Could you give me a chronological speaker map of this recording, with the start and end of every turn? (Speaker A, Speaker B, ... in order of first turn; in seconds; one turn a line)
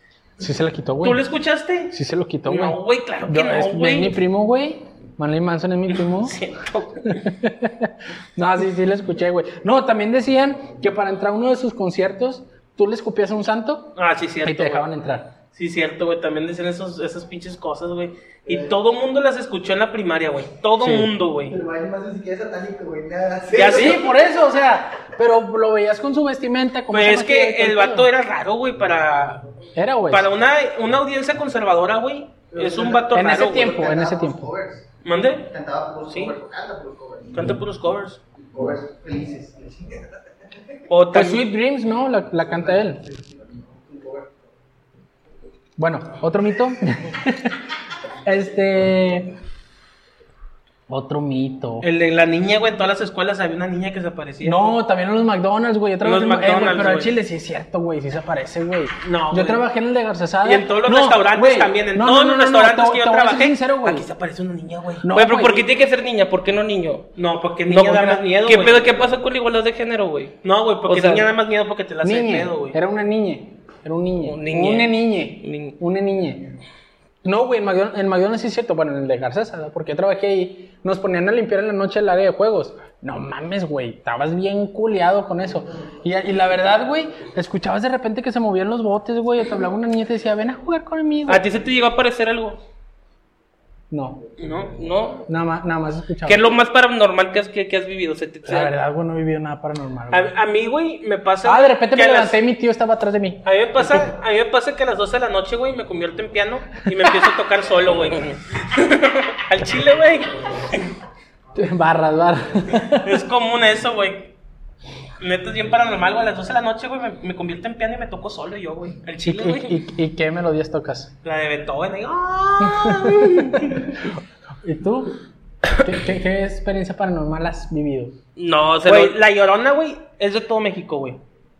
Speaker A: 0.4-1.2
Speaker B: 1.0-4.2
Speaker A: 1.9-6.4
Speaker B: 6.2-7.3
Speaker A: 7.0-15.3
Speaker B: 13.9-14.9
Speaker B: 15.5-21.6
Speaker A: 20.8-21.1
Speaker C: 21.5-24.1
Speaker B: 23.5-24.0
Speaker A: 23.6-28.1
Speaker B: 26.9-29.4
Speaker A: 29.8-30.3
Speaker B: 30.1-33.7
Speaker C: 32.5-34.9
Speaker A: 33.1-34.5
Speaker B: 35.0-35.5
Speaker C: 35.5-37.6
Speaker B: 36.1-36.3
Speaker B: 37.3-38.2
Speaker C: 38.3-40.1
Speaker B: 40.9-41.4
Speaker A: 41.1-43.0
Speaker C: 42.4-44.5
Speaker A: 45.8-47.6
Speaker A: 48.2-49.3
Speaker A: 50.9-51.9
Speaker B: 51.8-54.7
Speaker A: 54.4-64.1
Speaker B: 56.0-57.1
Speaker B: 59.0-59.6
Speaker B: 60.4-65.0
Speaker A: 65.0-65.7
Speaker D: 65.1-67.1
Speaker B: 67.2-69.0
Speaker D: 67.7-70.3
Speaker B: 70.4-72.8
Speaker D: 70.9-71.3
Speaker A: 72.0-76.5
Speaker D: 74.2-75.8
Speaker A: 77.2-91.4
Speaker D: 91.2-92.6
Speaker A: 93.9-94.2
Speaker B: 94.4-94.8
Speaker D: 94.7-95.3
Speaker A: 95.3-96.5
Speaker D: 96.2-98.7
Speaker A: 98.5-100.3
Speaker B: 100.1-102.4
Speaker A: 101.4-103.4
Speaker B: 103.4-110.8
Speaker A: 111.5-113.2
Speaker B: 113.0-114.3
Speaker B: 115.2-119.8
Speaker A: 119.2-121.1
Speaker B: 121.2-124.0
Speaker A: 122.6-124.1
Speaker A: 124.6-125.2
Speaker A: 125.8-128.2
Speaker D: 128.3-129.2
Speaker B: 128.8-131.2